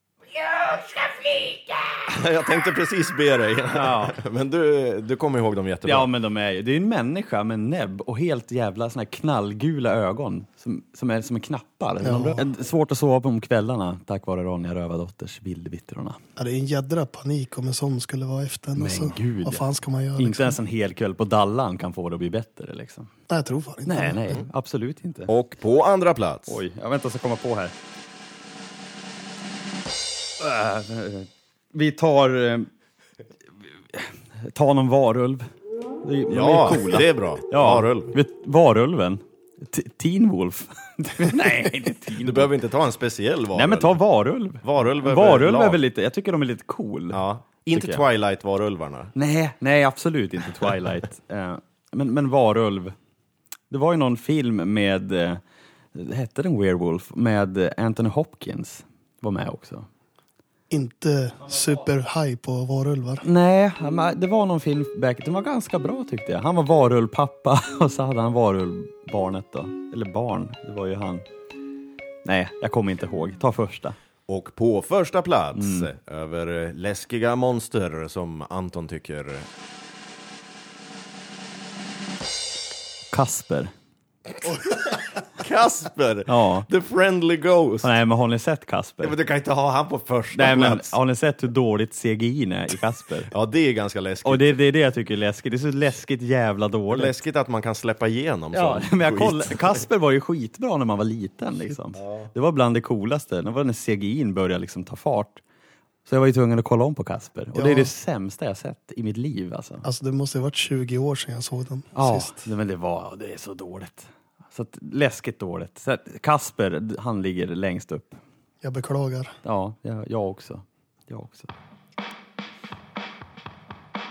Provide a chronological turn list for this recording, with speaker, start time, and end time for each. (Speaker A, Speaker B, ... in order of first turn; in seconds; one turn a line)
Speaker A: 0.4-2.0
Speaker B: 2.1-6.1
Speaker A: 3.7-4.2
Speaker A: 5.8-16.2
Speaker C: 12.0-12.4
Speaker C: 16.4-20.6
Speaker A: 18.8-19.6
Speaker A: 20.2-23.1
Speaker C: 23.3-24.2
Speaker A: 23.9-25.3
Speaker B: 25.3-26.6
Speaker A: 26.5-27.7
Speaker A: 30.4-32.7
Speaker A: 33.9-35.5
Speaker A: 36.0-42.5
Speaker B: 36.3-38.1
Speaker B: 42.1-44.0
Speaker A: 43.5-48.0
Speaker B: 44.6-45.8
Speaker B: 47.1-49.1
Speaker A: 49.1-52.9
Speaker A: 53.7-55.4
Speaker A: 55.9-59.9
Speaker C: 60.7-63.2
Speaker A: 63.2-71.2
Speaker A: 72.2-74.0
Speaker B: 74.3-79.5
Speaker A: 75.5-75.9
Speaker A: 83.1-83.7
Speaker B: 85.3-87.9
Speaker A: 86.3-86.7
Speaker A: 87.8-89.2
Speaker B: 89.0-91.0
Speaker A: 90.3-93.3
Speaker B: 93.3-94.5
Speaker A: 94.2-97.2
Speaker B: 96.9-99.8
Speaker A: 98.5-105.4
Speaker B: 102.0-102.3
Speaker A: 106.0-109.8
Speaker C: 107.5-107.9
Speaker C: 109.8-112.4
Speaker A: 112.0-118.2
Speaker C: 118.6-119.3
Speaker A: 119.4-121.5